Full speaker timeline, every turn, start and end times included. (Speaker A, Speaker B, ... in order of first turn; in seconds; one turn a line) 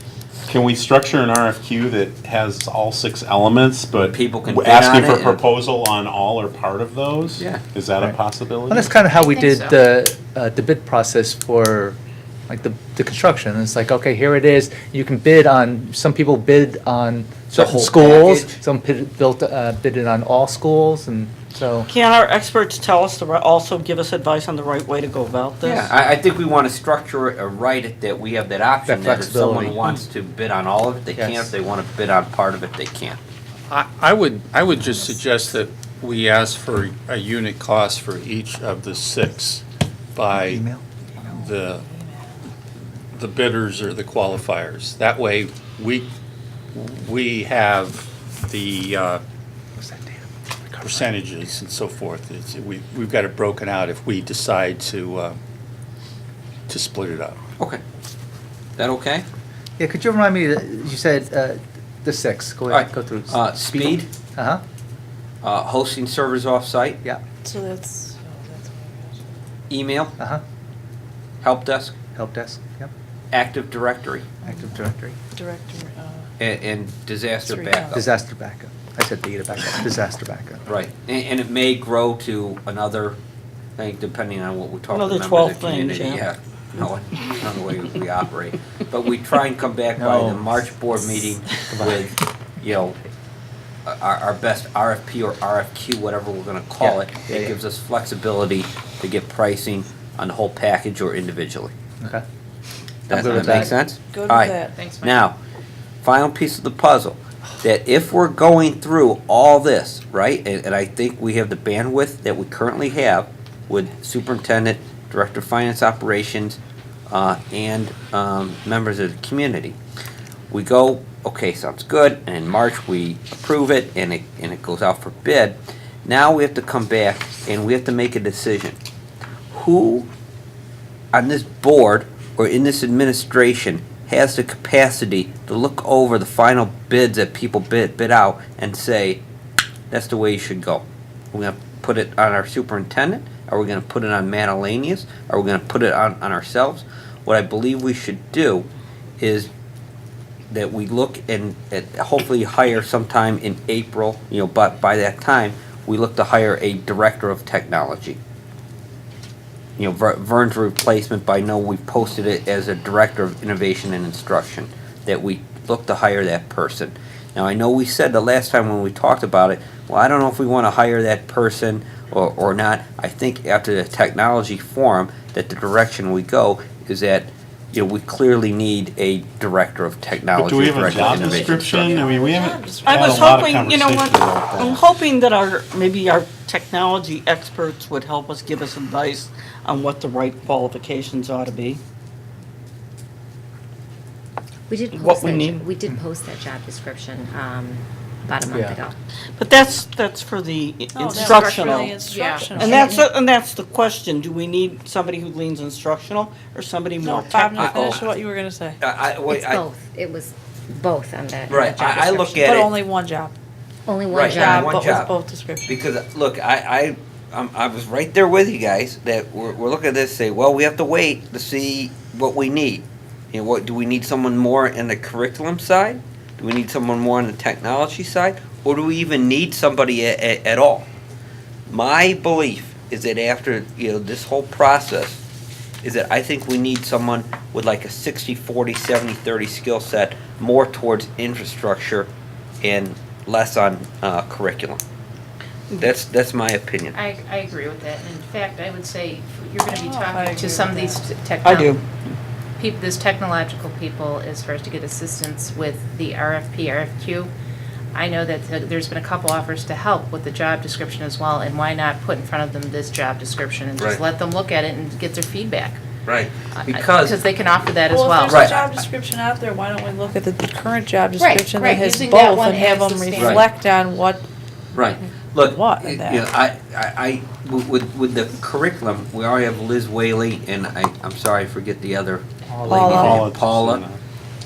Speaker A: 0.5-8.9
Speaker B: 4.1-5.4
Speaker C: 8.7-21.9
Speaker D: 9.1-9.8
Speaker B: 17.6-18.6
Speaker E: 21.9-25.9
Speaker B: 25.6-33.2
Speaker C: 28.9-30.1
Speaker C: 31.2-31.5
Speaker F: 33.7-39.6
Speaker F: 40.1-40.6
Speaker C: 40.3-40.8
Speaker F: 41.2-41.9
Speaker F: 43.1-46.1
Speaker F: 46.7-49.2
Speaker C: 49.8-51.2
Speaker F: 50.8-55.4
Speaker F: 56.7-57.4
Speaker B: 58.8-59.3
Speaker C: 59.8-64.6
Speaker B: 62.7-64.1
Speaker B: 65.4-67.0
Speaker G: 67.4-69.2
Speaker B: 69.7-70.2
Speaker B: 71.4-72.0
Speaker C: 72.2-72.9
Speaker B: 73.3-74.3
Speaker C: 74.5-75.2
Speaker G: 75.3-76.3
Speaker B: 76.4-78.1
Speaker G: 77.4-78.0
Speaker C: 77.9-80.6
Speaker B: 80.7-83.2
Speaker B: 83.8-93.0
Speaker E: 84.9-86.2
Speaker C: 90.0-90.6
Speaker C: 91.6-92.1
Speaker B: 93.9-101.7
Speaker C: 96.8-97.5
Speaker C: 103.1-103.8
Speaker B: 103.1-105.4
Speaker G: 103.4-104.7
Speaker D: 104.8-105.2
Speaker B: 106.0-119.8
Speaker B: 120.5-128.8
Speaker B: 129.5-130.1
Speaker B: 131.1-139.2
Speaker B: 139.9-148.7
Speaker B: 149.2-149.5
Speaker B: 150.5-158.2
Speaker B: 159.8-182.0
Speaker A: 180.3-184.9
Speaker G: 181.3-183.6
Speaker E: 182.8-191.8
Speaker H: 194.7-198.9
Speaker E: 194.9-195.6
Speaker C: 198.5-198.8
Speaker E: 199.4-208.0
Speaker G: 200.9-202.8
Speaker D: 202.0-202.6
Speaker H: 202.6-203.2
Speaker G: 207.0-208.8
Speaker B: 207.5-208.1
Speaker B: 208.8-209.6
Speaker H: 209.3-212.6
Speaker B: 211.5-212.7
Speaker G: 212.4-213.3
Speaker H: 213.9-214.9
Speaker B: 214.1-230.9
Speaker G: 214.3-215.8
Speaker B: 231.7-235.2
Speaker B: 235.8-242.1
Speaker B: 242.6-244.8
Speaker B: 245.8-247.0
Speaker D: 246.9-251.8
Speaker G: 249.6-251.0
Speaker E: 251.4-252.2
Speaker D: 252.6-257.3
Speaker D: 257.9-265.9
Speaker B: 266.1-267.2
Speaker D: 266.5-268.6
Speaker G: 267.9-274.3
Speaker B: 268.3-268.6
Speaker D: 271.2-273.4
Speaker B: 273.2-273.4
Speaker B: 274.7-283.8
Speaker G: 275.4-276.3
Speaker C: 282.5-283.2
Speaker G: 282.7-283.2
Speaker A: 282.8-284.0